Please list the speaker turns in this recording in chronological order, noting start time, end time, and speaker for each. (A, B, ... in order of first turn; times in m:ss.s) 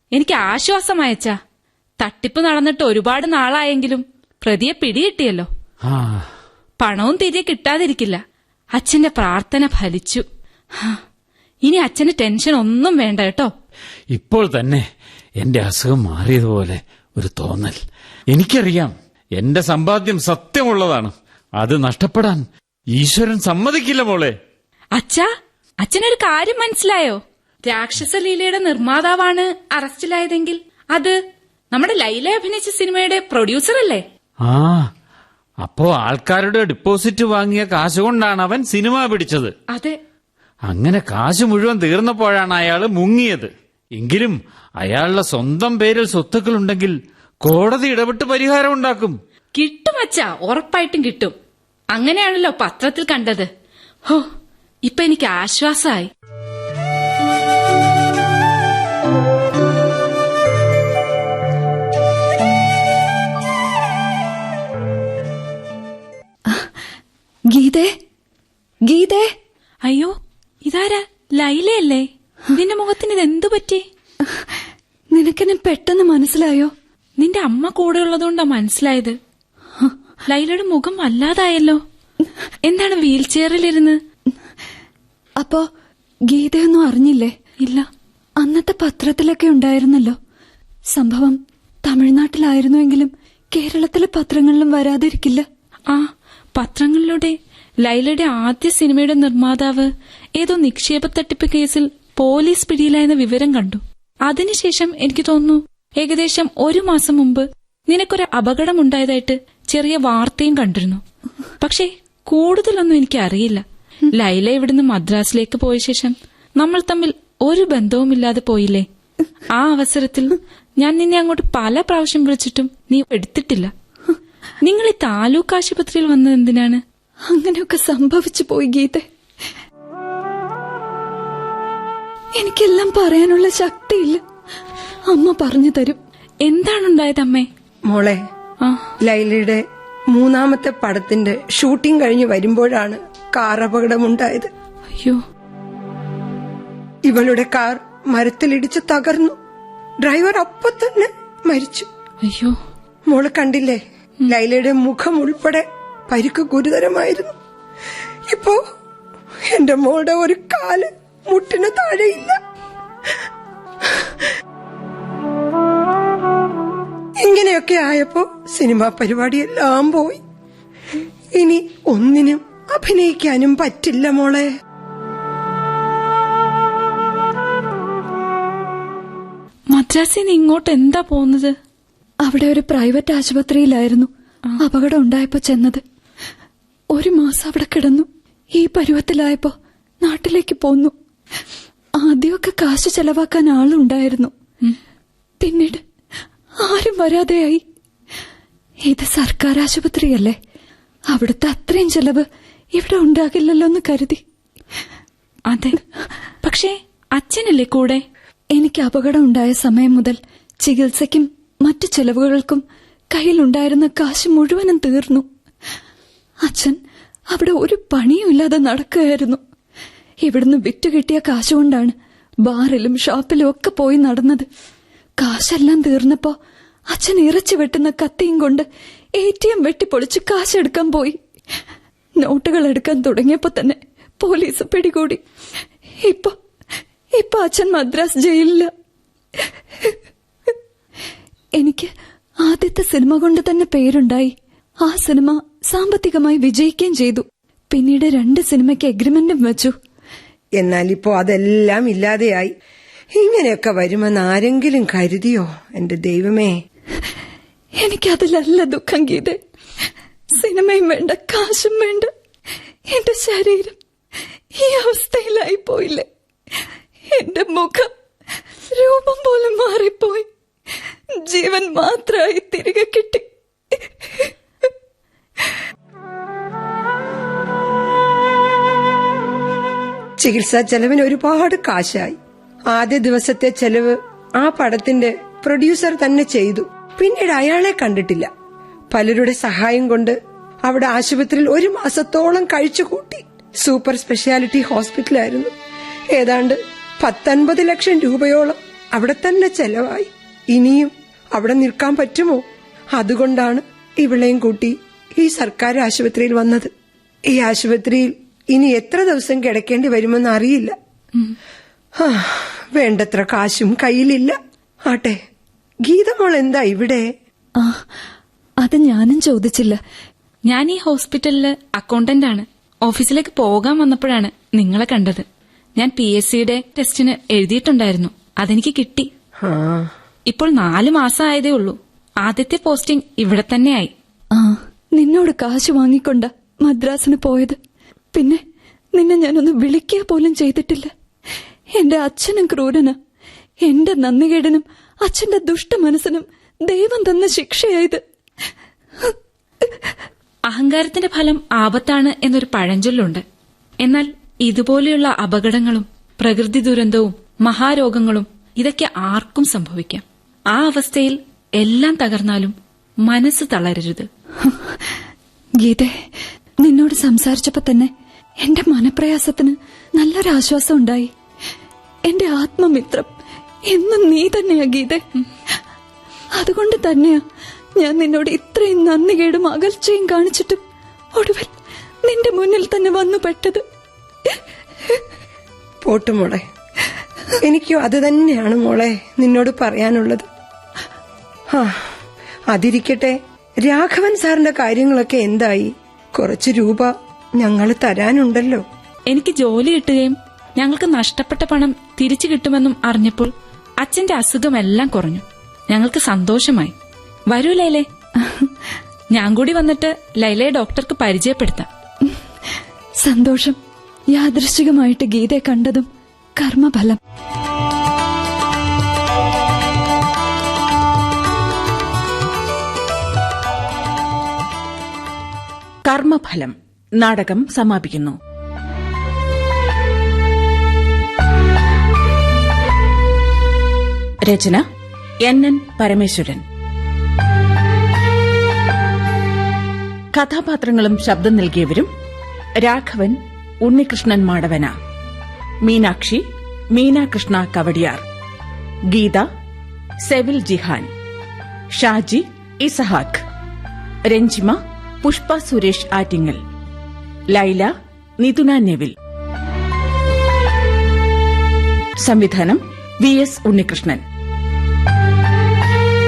0:00.1-0:01.3 A
0:02.0-0:05.5 A
0:05.8-0:06.3 B
0:06.8-0:08.2 A
0:08.8-0:10.2 A
0:11.6-0:13.5 A
0:14.1-0:14.8 B
0:15.4-0:17.8 B
0:18.3-0:24.4 B
0:24.9-0:25.3 A
0:25.8-0:31.2 A
0:31.7-0:34.0 A
0:34.4-0:34.9 B
0:35.6-0:39.5 B
0:39.7-0:40.0 A
0:40.7-0:49.2 B
0:49.5-0:51.3 A
0:51.9-0:53.5 A
0:54.8-0:56.1 A
1:06.4-1:06.7 C
1:07.5-1:08.0 C
1:08.8-1:09.3 C
1:09.8-1:13.8 A
1:14.2-1:16.7 C
1:17.2-1:19.2 A
1:20.2-1:21.8 A
1:22.6-1:24.0 A
1:25.4-1:25.7 C
1:26.3-1:27.3 C
1:27.6-1:27.9 A
1:28.4-1:30.2 C
1:30.9-1:35.4 C
1:35.9-1:51.0 A
1:51.6-1:58.8 A
1:59.5-2:03.7 A
2:04.6-2:06.8 A
2:07.3-2:09.0 C
2:12.4-2:14.2 C
2:15.1-2:16.0 C
2:16.4-2:17.5 A
2:17.9-2:18.2 D
2:18.6-2:18.9 A
2:19.0-2:24.5 D
2:24.9-2:25.2 A
2:27.0-2:29.4 D
2:30.0-2:31.9 D
2:32.2-2:32.6 A
2:33.1-2:37.4 D
2:38.3-2:38.6 D
2:39.5-2:42.4 D
2:43.8-2:44.3 D
2:47.2-2:50.2 D
2:51.4-2:54.5 D
2:59.7-3:01.6 A
3:02.2-3:05.8 C
3:06.9-3:10.9 C
3:12.0-3:14.3 C
3:15.4-3:15.8 C
3:16.6-3:17.6 C
3:18.8-3:20.4 C
3:21.1-3:24.2 C
3:25.5-3:25.8 A
3:26.4-3:28.0 A
3:28.5-3:35.3 C
3:36.4-3:36.8 C
3:37.3-3:39.4 C
3:40.2-3:44.5 C
3:45.2-3:46.4 C
3:46.9-3:51.2 C
3:52.2-3:55.2 C
3:56.0-3:56.4 C
3:57.1-3:58.7 C
3:59.4-4:00.6 C
4:01.6-4:01.9 C
4:02.4-4:09.8 C
4:10.6-4:12.5 D
4:13.2-4:16.5 D
4:17.8-4:22.1 C
4:22.9-4:23.8 C
4:24.5-4:26.1 C
4:27.1-4:27.9 C
4:28.7-4:30.3 C
4:31.1-4:34.7 C
4:40.2-4:42.2 D
4:42.7-4:48.3 D
4:48.9-4:55.5 D
4:56.1-5:02.4 D
5:02.9-5:06.7 D
5:07.3-5:10.8 D
5:12.0-5:15.2 D
5:15.8-5:17.0 D
5:17.6-5:17.9 C
5:18.6-5:19.8 C
5:20.5-5:25.2 A
5:25.8-5:29.1 A
5:29.4-5:29.9 D
5:30.3-5:33.9 A
5:34.3-5:37.6 C
5:38.1-5:38.4 C
5:38.9-5:40.9 C
5:41.7-5:43.0 C
5:43.6-5:48.0 C
5:49.0-5:50.0 C
5:50.5-5:53.2 A
5:53.8-6:04.1 A
6:04.4-6:05.0 C
6:05.6-6:06.0 C
6:06.6-6:11.1 C
6:12.0-6:13.1 C
6:13.7-6:15.6 C
6:16.3-6:17.2 C
6:17.8-6:20.6 C
6:21.1-6:21.5 C
6:22.0-6:23.6 C
6:24.2-6:25.0 C
6:25.8-6:26.4 D
6:27.4-6:30.2 D
6:31.5-6:31.8 D
6:32.5-6:38.6 D
6:39.1-6:46.7 A
6:47.3-6:47.8 A
6:48.2-6:48.8 C
6:49.1-6:51.7 A
6:52.0-6:53.6 C
6:54.1-6:57.0 C
7:05.8-7:08.2 E
7:14.2-7:14.6 E
7:15.2-7:16.4 E
7:20.1-7:21.9 E
7:22.6-7:24.7 E
7:25.6-7:28.0 E
7:28.9-7:29.3 E
7:30.0-7:30.9 E
7:31.7-7:33.2 E
7:34.1-7:36.4 E
7:37.3-7:38.9 E
7:42.0-7:44.0 E